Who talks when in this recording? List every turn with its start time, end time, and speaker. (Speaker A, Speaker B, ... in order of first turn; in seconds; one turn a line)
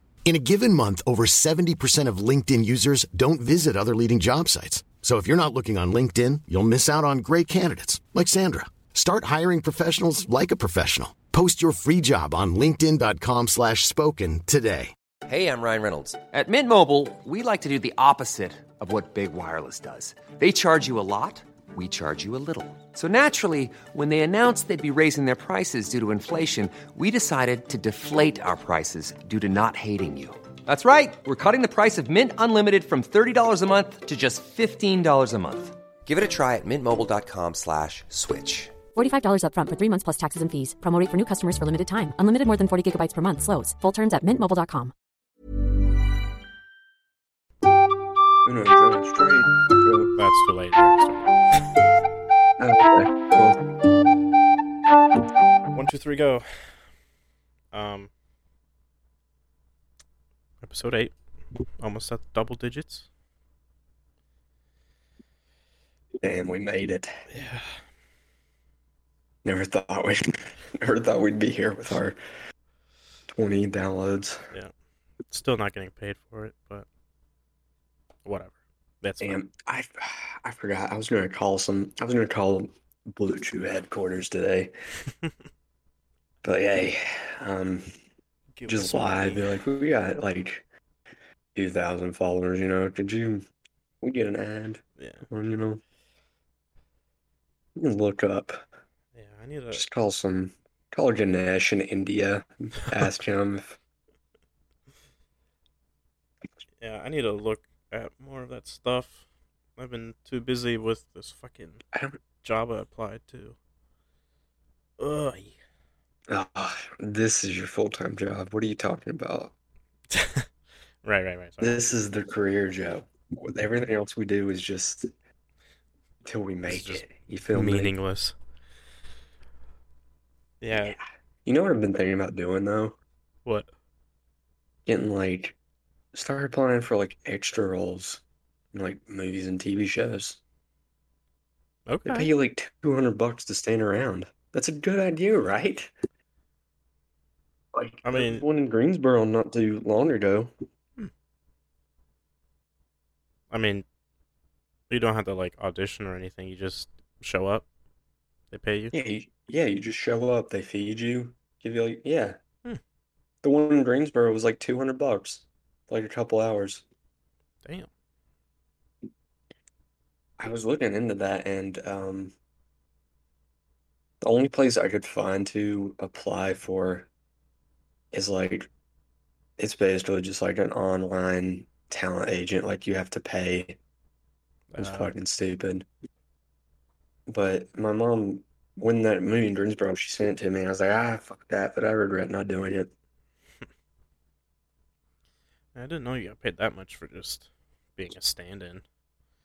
Speaker A: 0.2-14.9
Speaker B: 15.3-38.8
Speaker C: 38.9-44.9
Speaker D: 48.4-50.1
Speaker E: 50.2-51.6
Speaker D: 52.6-53.6
Speaker E: 55.7-56.9
Speaker E: 57.7-58.1
Speaker E: 60.6-61.1
Speaker E: 61.8-63.1
Speaker D: 66.2-67.1
Speaker E: 67.3-67.8
Speaker D: 69.4-72.2
Speaker D: 73.3-74.5
Speaker E: 75.3-76.8
Speaker E: 78.2-79.4
Speaker D: 79.2-84.7
Speaker D: 86.4-87.9
Speaker E: 88.5-89.4
Speaker D: 88.7-90.6
Speaker D: 91.5-93.5
Speaker D: 94.0-95.8
Speaker E: 95.0-95.2
Speaker D: 97.8-98.7
Speaker E: 99.1-99.8
Speaker D: 99.7-103.8
Speaker E: 106.8-109.2
Speaker E: 109.8-111.8
Speaker D: 111.9-112.2
Speaker E: 112.4-113.5
Speaker E: 115.0-115.5
Speaker D: 116.3-119.5
Speaker E: 120.1-120.5
Speaker E: 121.0-121.8
Speaker D: 121.6-125.1
Speaker D: 126.2-127.9
Speaker E: 126.7-128.3
Speaker E: 130.6-130.9
Speaker D: 130.7-133.0
Speaker D: 134.8-135.6
Speaker D: 136.1-138.2
Speaker D: 138.7-140.4
Speaker E: 141.9-142.3
Speaker D: 142.0-145.9
Speaker D: 147.7-150.5
Speaker E: 148.0-148.4
Speaker E: 153.5-153.8
Speaker E: 154.9-157.7
Speaker E: 158.5-159.0
Speaker D: 158.9-162.4
Speaker D: 163.4-166.8
Speaker E: 167.6-167.9
Speaker D: 170.4-172.3
Speaker D: 174.2-177.1
Speaker D: 178.1-178.7
Speaker D: 179.6-183.8
Speaker E: 184.7-185.1
Speaker D: 184.8-185.8
Speaker D: 187.3-192.9
Speaker E: 195.7-198.8